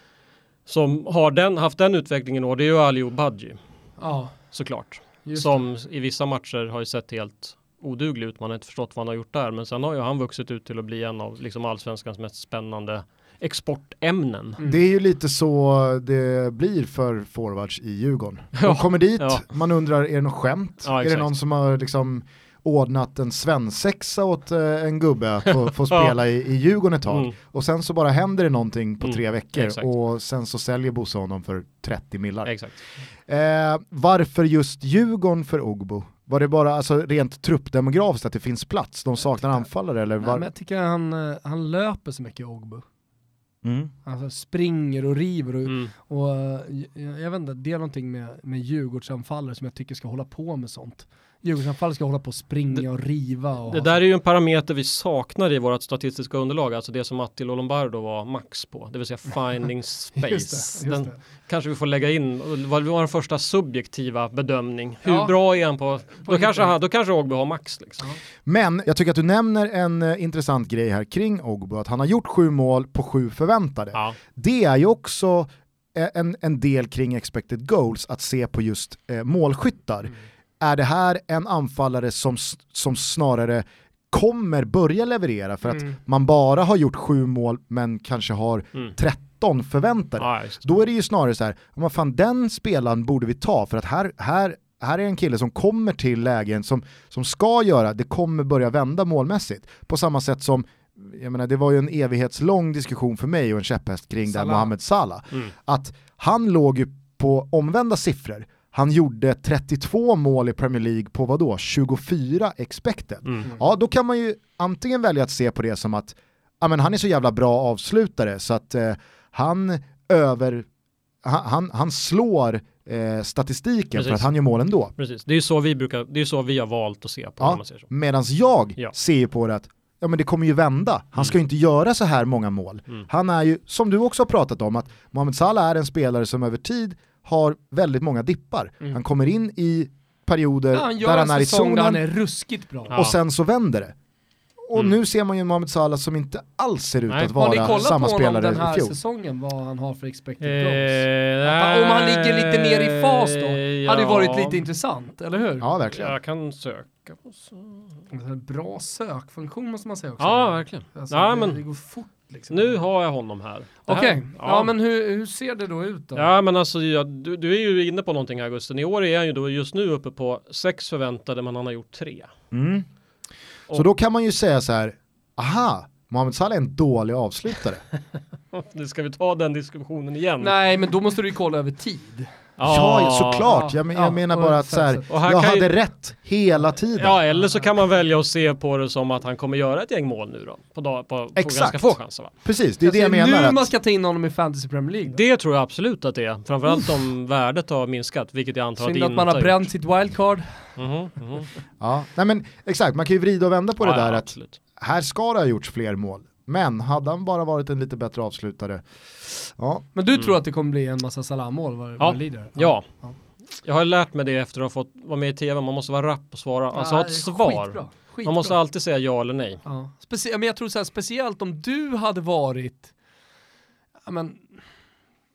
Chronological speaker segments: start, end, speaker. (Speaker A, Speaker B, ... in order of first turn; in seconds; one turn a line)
Speaker A: 0.7-3.6
Speaker B: 4.0-4.3
Speaker A: 4.5-14.6
Speaker B: 5.2-5.6
Speaker C: 14.6-32.5
Speaker A: 18.6-19.4
Speaker A: 20.8-21.3
Speaker A: 25.5-26.1
Speaker A: 27.1-27.3
Speaker A: 29.0-29.9
Speaker A: 32.4-32.7
Speaker C: 33.2-40.5
Speaker B: 40.2-42.8
Speaker C: 43.6-43.9
Speaker B: 44.0-54.0
Speaker A: 45.6-45.9
Speaker A: 53.7-68.0
Speaker B: 60.2-61.1
Speaker B: 65.0-65.3
Speaker B: 66.2-66.7
Speaker C: 68.5-120.7
Speaker A: 90.2-90.6
Speaker B: 104.3-104.7
Speaker C: 121.2-124.9
Speaker A: 124.0-124.3
Speaker A: 125.0-127.9
Speaker C: 127.4-142.0
Speaker B: 140.7-142.9
Speaker A: 142.9-143.2
Speaker C: 142.9-143.9
Speaker C: 144.6-148.9
Speaker A: 147.1-147.9
Speaker B: 147.4-155.7
Speaker A: 150.4-154.6
Speaker C: 155.6-156.1
Speaker A: 155.9-157.8
Speaker B: 158.1-162.8
Speaker A: 160.2-161.6
Speaker A: 162.5-164.7
Speaker B: 163.8-166.3
Speaker A: 166.1-172.3
Speaker C: 172.5-172.9
Speaker C: 173.7-177.8
Speaker A: 178.5-180.6
Speaker B: 180.4-182.3
Speaker A: 182.6-183.5
Speaker C: 182.6-187.2
Speaker B: 183.4-185.1
Speaker A: 185.1-185.7
Speaker A: 186.9-192.3
Speaker C: 191.3-193.7
Speaker B: 192.8-195.2
Speaker A: 195.1-199.7
Speaker B: 198.8-200.7
Speaker A: 200.8-201.5
Speaker C: 201.8-209.8
Speaker A: 203.8-204.6
Speaker B: 209.9-213.2
Speaker A: 212.0-212.9
Speaker A: 213.5-219.6
Speaker B: 216.7-218.6
Speaker B: 219.6-222.9
Speaker B: 224.1-224.5